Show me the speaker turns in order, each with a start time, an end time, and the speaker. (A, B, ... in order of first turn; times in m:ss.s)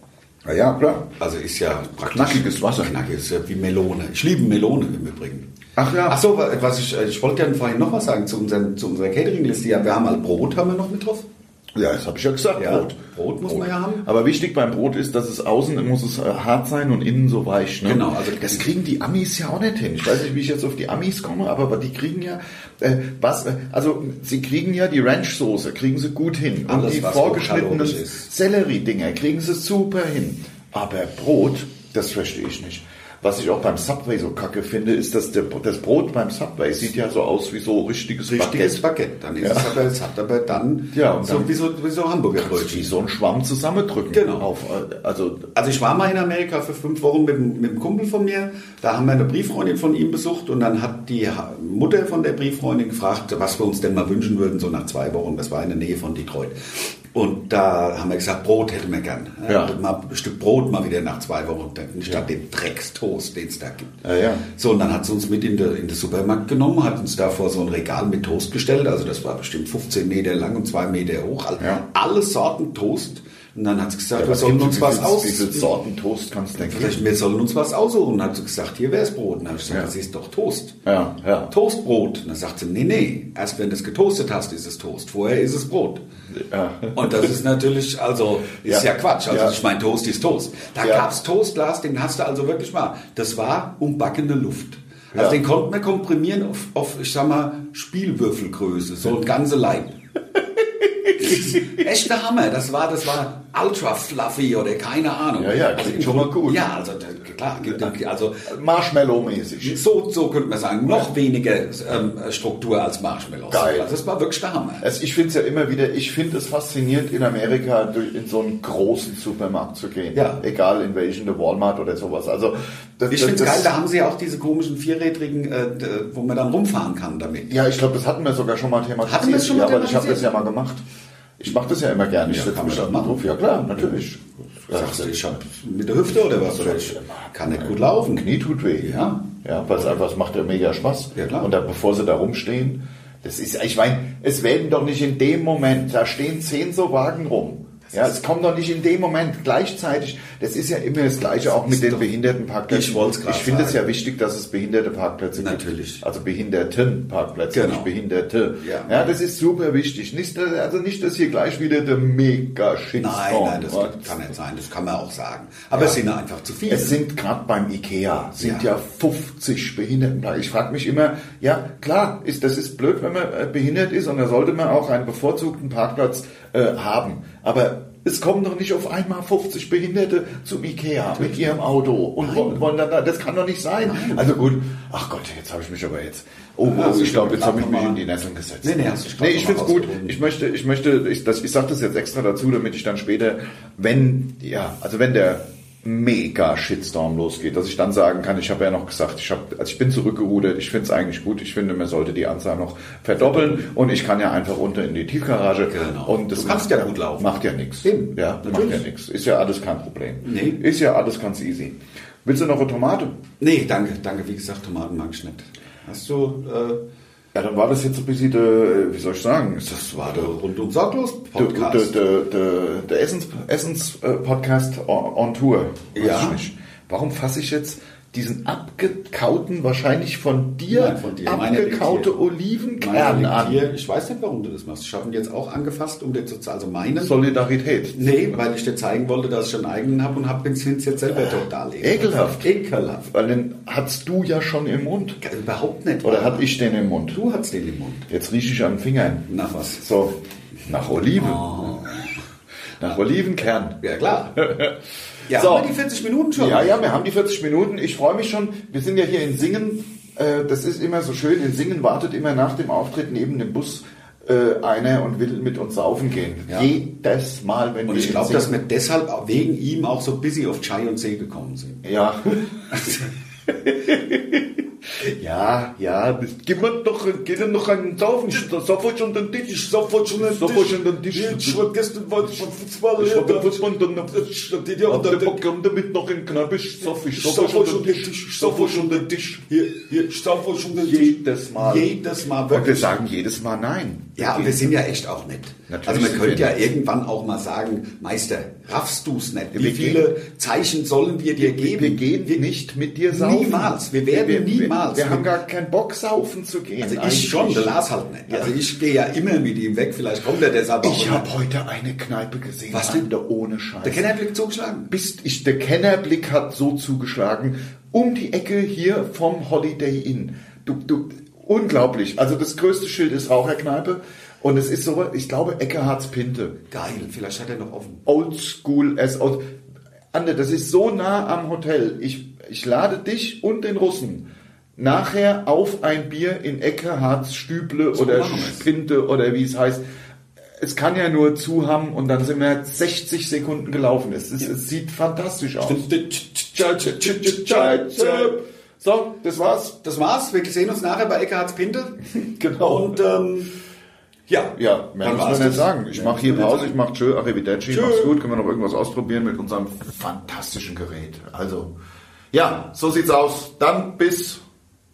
0:00.4-0:01.1 A
0:01.2-0:05.5 B
0:02.1-0:02.9 A
0:05.8-0:06.2 A
0:06.0-0:11.3 B
0:11.8-0:12.9 A
0:12.6-0:14.1 B
0:13.5-0:38.8 A
0:17.8-0:18.7 B
0:26.7-0:28.3 B
0:38.3-0:43.0 B
0:39.4-0:39.8 A
0:40.9-0:41.6 A
0:42.4-0:45.5 A
0:44.1-0:44.5 B
0:45.6-1:15.7 B
0:59.5-0:59.7 A
1:04.0-1:04.4 A
1:14.2-1:17.0 A
1:16.6-1:20.8 B
1:20.9-1:21.5 A
1:21.5-1:26.0 B
1:26.3-1:27.3 A
1:27.0-1:40.0 B
1:28.6-1:29.6 A
1:30.8-1:31.1 A
1:35.1-1:35.4 A
1:41.2-1:48.5 B
1:41.2-1:41.6 A
1:45.4-1:46.6 A
1:48.4-1:49.8 A
1:49.6-1:54.8 B
1:53.5-1:53.9 A
1:54.8-2:03.7 A
2:00.1-2:00.4 B
2:03.1-2:07.6 B
2:07.5-2:10.8 A
2:09.0-2:10.4 B
2:11.4-2:15.4 A
2:12.2-2:13.2 B
2:14.7-2:18.3 B
2:16.2-2:44.3 A
2:18.8-2:19.2 B
2:21.2-2:21.5 B
2:31.7-2:32.1 B
2:32.7-2:33.8 B
2:35.4-2:36.0 B
2:37.5-2:37.9 B
2:38.6-2:39.1 B
2:43.0-2:47.0 B
2:45.7-2:46.0 A
2:46.7-3:33.2 A
2:48.4-2:48.7 B
3:02.2-3:02.6 B
3:03.8-3:04.3 B
3:06.6-3:08.0 B
3:08.6-3:10.2 B
3:23.2-3:23.6 B
3:25.7-3:28.8 B
3:30.2-3:30.6 B
3:33.4-3:36.8 B
3:37.3-3:40.3 A
3:39.7-3:41.9 B
3:41.4-3:53.7 A
3:46.0-3:46.4 B
3:50.7-3:52.2 B
3:52.8-3:57.2 B
3:57.0-3:58.4 A
3:58.0-4:03.1 B
4:01.1-4:02.5 A
4:03.1-4:05.2 A
4:05.2-4:06.5 B
4:06.0-4:07.2 A
4:07.1-4:08.1 B
4:08.1-4:11.9 A
4:09.3-4:09.8 B
4:11.2-4:12.1 B
4:12.8-4:13.8 A
4:13.8-4:14.6 B
4:14.4-4:14.8 A
4:15.2-4:17.0 B
4:15.3-4:15.7 A
4:16.4-4:28.6 A
4:27.8-4:31.8 B
4:31.8-4:33.0 A
4:32.7-4:33.0 B
4:33.5-4:41.7 A
4:39.4-4:45.4 B
4:42.2-4:49.4 A
4:46.9-4:53.0 B
4:50.7-4:52.0 A
4:52.5-4:54.8 A
4:54.2-5:02.4 B
4:55.7-4:56.6 A
4:59.5-5:00.1 A
5:01.4-5:07.7 A
5:03.1-5:05.3 B
5:06.8-5:11.3 B
5:08.3-5:08.5 A
5:10.8-5:14.1 A
5:12.7-5:13.0 B
5:13.8-5:14.9 B
5:14.9-5:26.6 A
5:26.7-5:28.0 B
5:28.1-5:29.5 A
5:30.1-5:34.3 A
5:34.8-5:39.8 A
5:37.9-5:38.7 B
5:40.6-5:45.9 A
5:45.6-5:48.4 B
5:46.6-5:49.8 A
5:49.8-5:52.0 B
5:52.1-5:53.0 A
5:52.6-5:53.5 B
5:54.3-5:56.8 B
5:54.6-6:01.8 A
5:57.7-5:58.2 B
6:02.3-6:04.4 A